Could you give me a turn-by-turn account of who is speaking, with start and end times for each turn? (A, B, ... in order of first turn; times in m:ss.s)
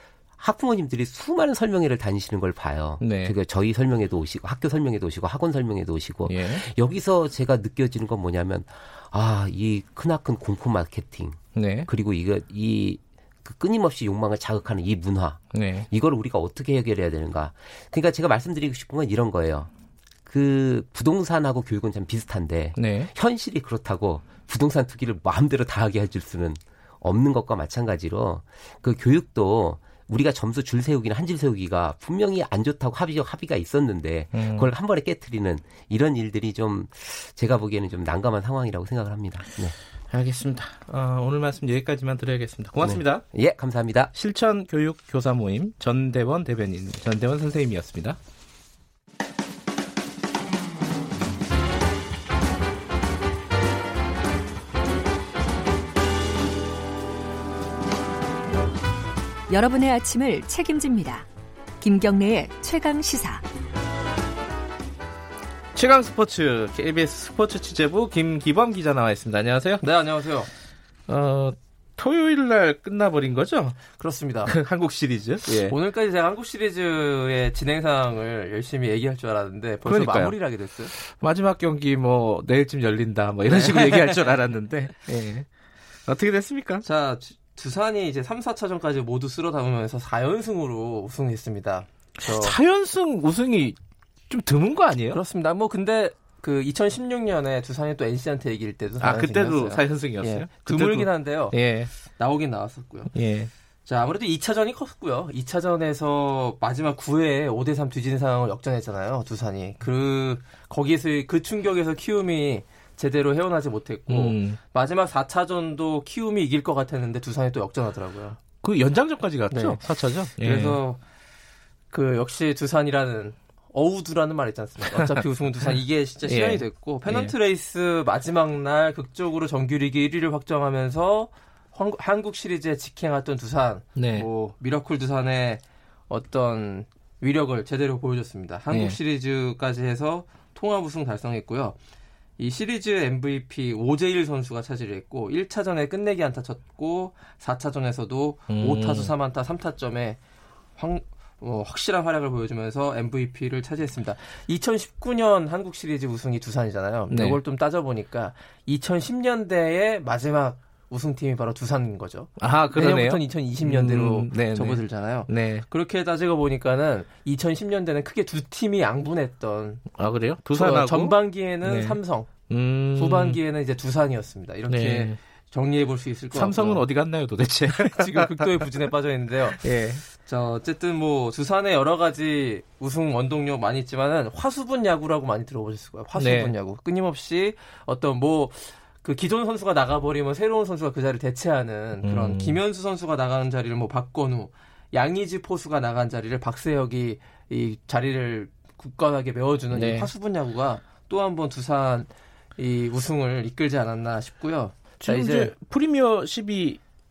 0:00.4-0:19.7 A
0:03.0-0:03.4 B
0:06.3-0:06.6 B
0:11.6-0:11.9 B
0:15.5-0:15.9 B
0:20.3-0:39.8 A
0:22.8-0:23.1 B
0:34.4-0:34.7 B
0:40.1-0:43.2 B
0:42.8-0:44.1 A
0:44.1-0:48.2 B
0:59.5-1:01.3 C
1:01.8-1:03.4 C
1:05.8-1:09.8 B
1:09.8-1:10.5 D
1:11.1-1:13.8 B
1:14.0-1:14.5 D
1:14.4-1:15.8 B
1:15.5-1:20.9 D
1:19.8-1:20.4 B
1:21.0-1:25.5 B
1:23.5-1:24.2 D
1:26.1-1:26.8 B
1:26.8-1:32.6 D
1:32.3-1:33.8 B
1:34.3-1:35.2 B
1:35.1-1:41.6 D
1:39.0-1:41.9 B
1:42.1-1:43.1 D
1:43.1-1:43.5 B
1:43.9-1:58.4 D
1:54.1-1:54.6 B
1:58.6-2:00.8 B
1:59.5-1:59.8 D
2:00.4-2:01.0 D
2:01.9-2:21.8 D
2:04.9-2:05.2 B
2:06.2-2:07.4 B
2:14.0-2:14.3 B
2:18.7-2:19.0 B
2:22.4-2:30.2 D
2:28.5-2:29.1 B
2:30.8-2:49.8 D
2:37.1-2:37.4 B
2:42.4-2:45.6 B
2:50.0-2:53.4 B
2:50.5-2:52.3 D
2:53.0-2:56.9 D
2:54.7-2:55.2 B
2:56.3-2:58.7 B
2:57.8-3:25.5 D
2:59.6-3:00.0 B
3:06.2-3:06.5 B
3:12.0-3:12.6 B
3:19.7-3:20.1 B
3:25.0-3:26.8 B